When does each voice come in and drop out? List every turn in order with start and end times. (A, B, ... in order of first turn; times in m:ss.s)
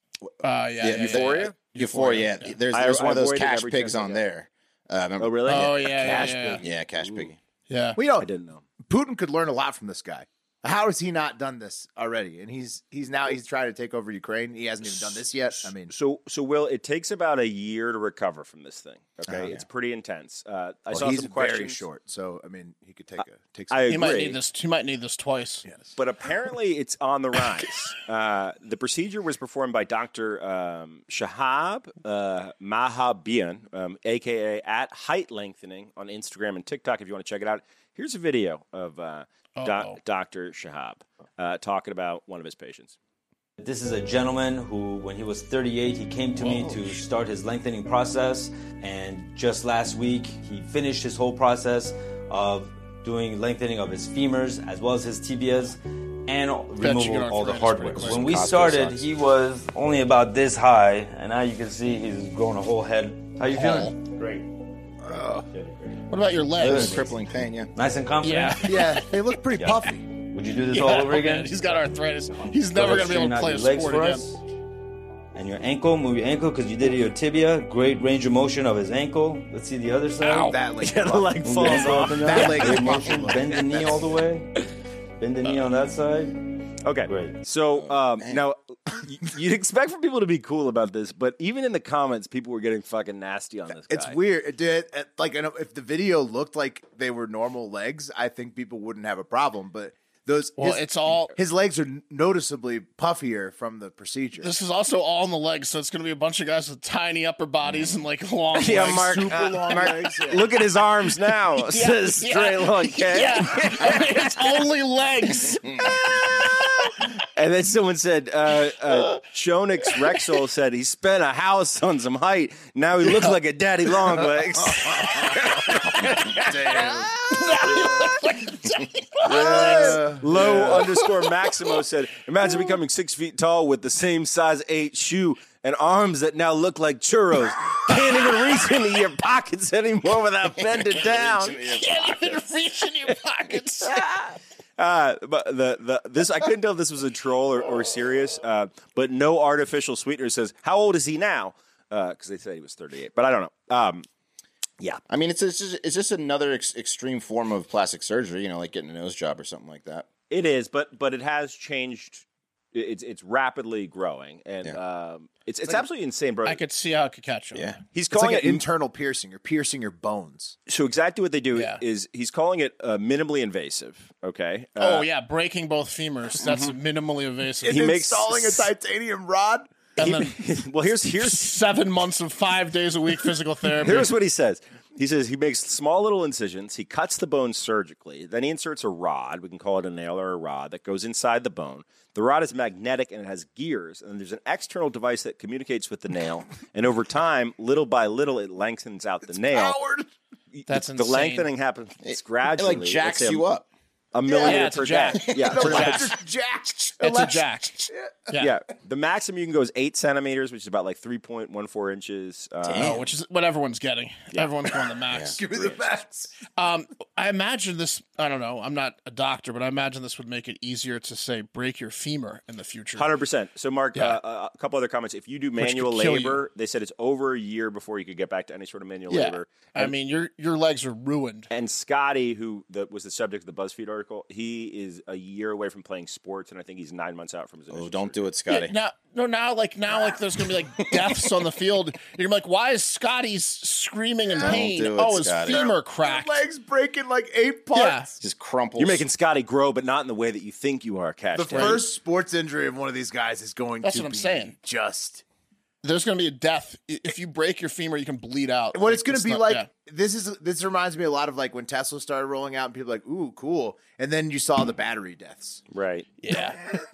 0:00.4-0:02.6 A
0:00.8-0:07.4 B
0:00.9-0:01.6 C
0:02.7-0:04.2 C
0:05.2-0:07.3 C
0:05.5-0:06.6 A
0:06.0-0:06.6 D
0:07.7-0:08.0 A
0:08.0-0:08.3 D
0:08.2-0:08.6 C
0:08.8-0:15.9 D
0:14.9-0:21.8 C
0:20.9-0:23.8 D
0:23.7-0:24.4 C
0:23.9-0:25.6 A
0:25.6-0:26.0 D
0:26.0-0:43.0 C
0:39.6-0:40.0 A
0:43.6-1:04.5 E
0:46.4-0:46.7 A
0:56.8-0:58.4 A
0:58.0-0:59.1 B
1:03.5-1:03.9 A
1:05.0-1:05.4 D
1:05.5-1:06.0 E
1:06.1-1:07.1 A
1:06.6-1:07.7 B
1:06.6-1:07.0 E
1:07.7-1:08.9 E
1:08.2-1:09.1 A
1:08.6-1:10.0 D
1:09.6-1:11.8 E
1:10.7-1:14.2 A
1:12.3-1:14.4 E
1:15.3-1:20.6 E
1:20.2-1:20.6 A
1:20.4-1:24.0 D
1:20.8-1:22.8 C
1:21.4-1:24.6 E
1:25.2-1:26.4 E
1:26.8-1:34.2 C
1:27.0-1:27.4 E
1:27.8-1:28.4 B
1:33.9-1:44.5 D
1:40.6-1:41.3 A
1:44.4-1:49.3 A
1:48.6-1:54.6 C
1:48.7-1:50.5 D
1:51.7-1:56.4 A
1:57.2-2:07.1 C
2:04.6-2:05.4 D
2:06.4-2:07.1 D
2:06.7-2:11.2 A
2:07.6-2:08.1 D
2:09.2-2:10.9 D
2:09.2-2:21.6 C
2:20.5-2:22.4 B
2:21.7-2:24.0 A
2:23.8-2:34.0 C
2:35.1-2:40.1 B
2:40.3-2:46.6 C
2:46.4-2:47.7 A
2:47.5-2:47.8 B
2:47.9-2:48.7 C
2:48.1-2:50.6 D
2:50.7-2:55.0 C
2:51.5-2:51.8 A
2:54.8-2:57.9 A
2:57.6-2:59.7 D
2:57.7-2:58.7 C
3:00.0-3:00.4 A
3:00.0-3:01.6 C
3:01.2-3:04.1 A
3:03.8-3:19.8 C
3:19.2-3:20.1 D
3:20.5-3:23.4 C
3:20.7-3:21.5 A
3:22.0-3:23.6 B
3:24.1-3:26.2 C
3:24.2-3:24.8 D
3:24.4-3:26.1 A
3:25.3-3:28.2 D
3:27.0-3:28.5 A
3:28.4-3:33.0 C
3:32.6-3:33.1 B
3:32.8-3:35.4 A
3:35.1-3:35.4 B
3:35.4-3:36.3 D
3:35.5-3:35.8 C
3:36.5-3:43.1 A
3:43.0-3:49.9 C
3:45.6-3:46.4 A
3:49.1-3:51.5 A
3:51.5-3:58.3 C
3:57.7-3:58.7 B
3:58.5-4:06.4 A
4:04.3-4:04.6 D
4:04.4-4:05.7 B
4:05.3-4:08.1 D
4:07.7-4:08.1 A
4:08.2-4:09.0 B
4:08.8-4:11.9 C
4:11.4-4:15.2 D
4:11.5-4:11.8 A
4:13.8-4:14.5 A
4:15.8-4:19.7 A
4:18.7-4:25.6 D
4:25.7-4:26.1 C
4:26.2-4:26.6 A